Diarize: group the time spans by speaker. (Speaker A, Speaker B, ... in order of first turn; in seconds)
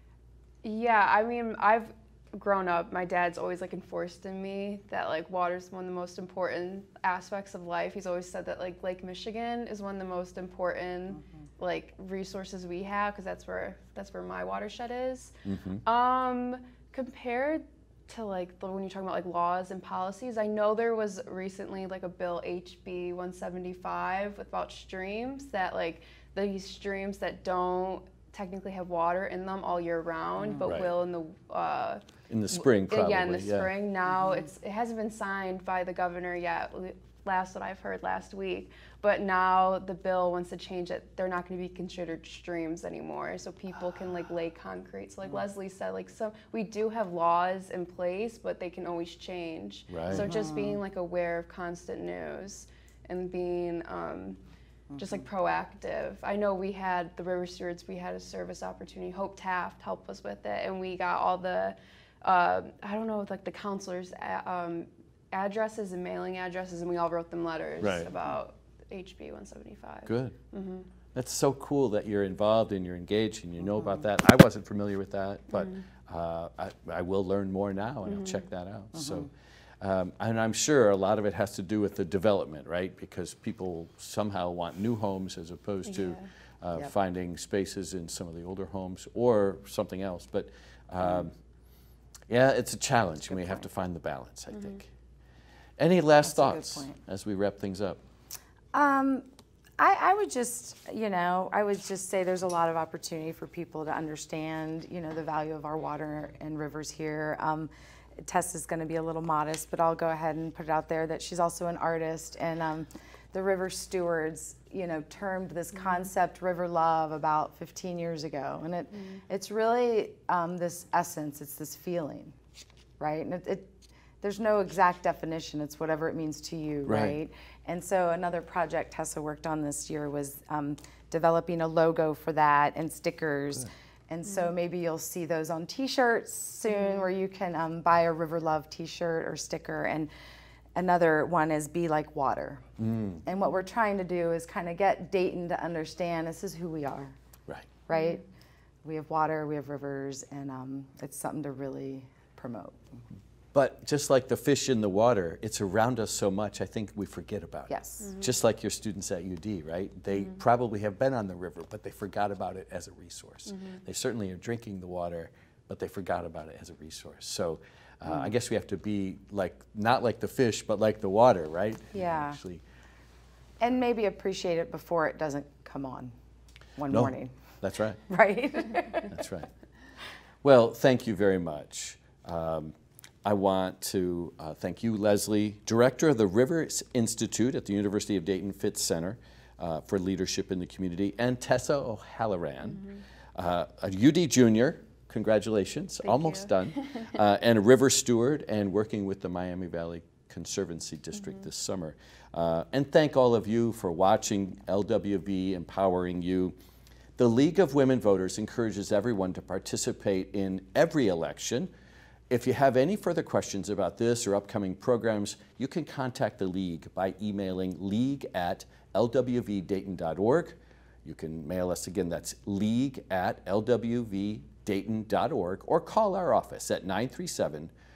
Speaker A: 0.6-54.4, 55.0-70.9, 78.1-78.4, 85.9-86.2, 196.1-197.1
Speaker B: 15.4-15.8, 30.6-30.9, 32.3-33.7, 49.9-50.3, 67.8-68.1, 70.1-70.3, 71.1-91.3, 92.3-94.9, 95.8-98.0, 126.9-127.2, 142.8-143.2, 153.5-172.6, 176.9-178.0, 179.1-179.5, 180.4-206.6, 207.2-211.7, 212.3-227.7
Speaker C: 50.1-50.8, 79.0-79.3, 96.2-97.0, 98.7-99.3, 99.8-107.7, 108.2-122.3, 123.0-140.1, 140.8-147.2, 147.9-148.2, 148.8-153.0, 157.7-158.1, 171.9-172.4, 173.6-176.1, 176.8-177.4, 178.1-179.2